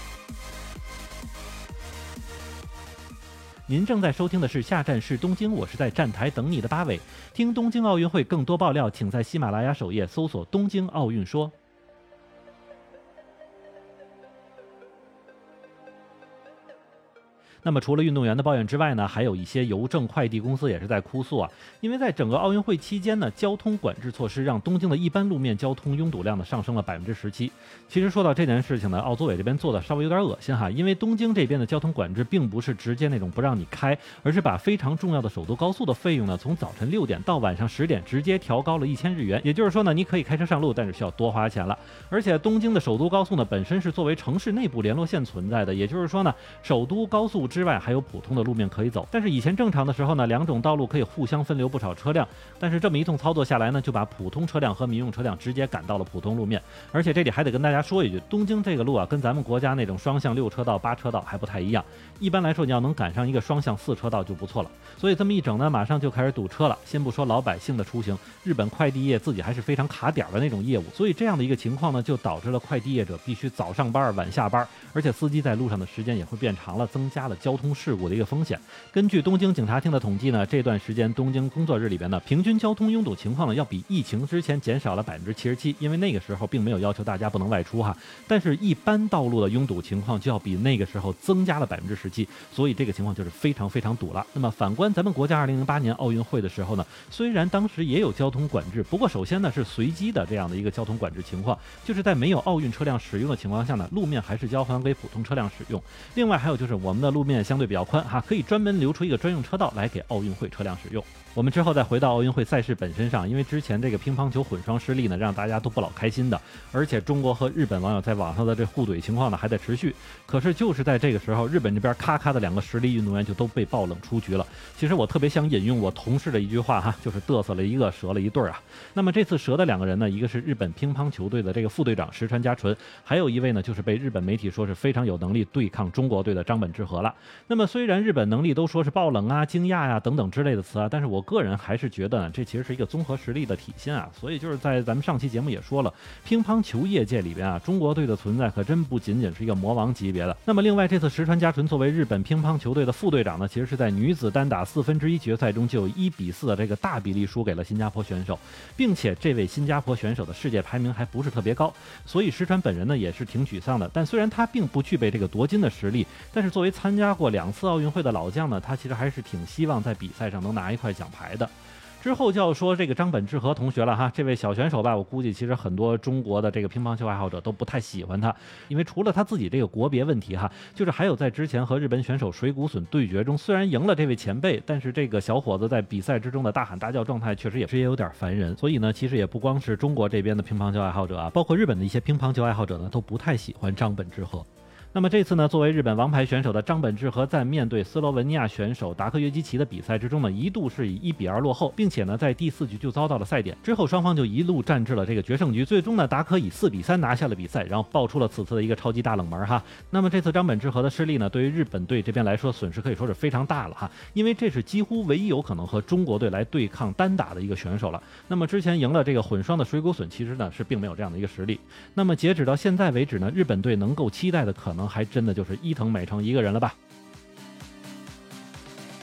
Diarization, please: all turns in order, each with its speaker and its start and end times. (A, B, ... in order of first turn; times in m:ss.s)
0:03.7-0:11.5 A
0:17.6-3:46.8 A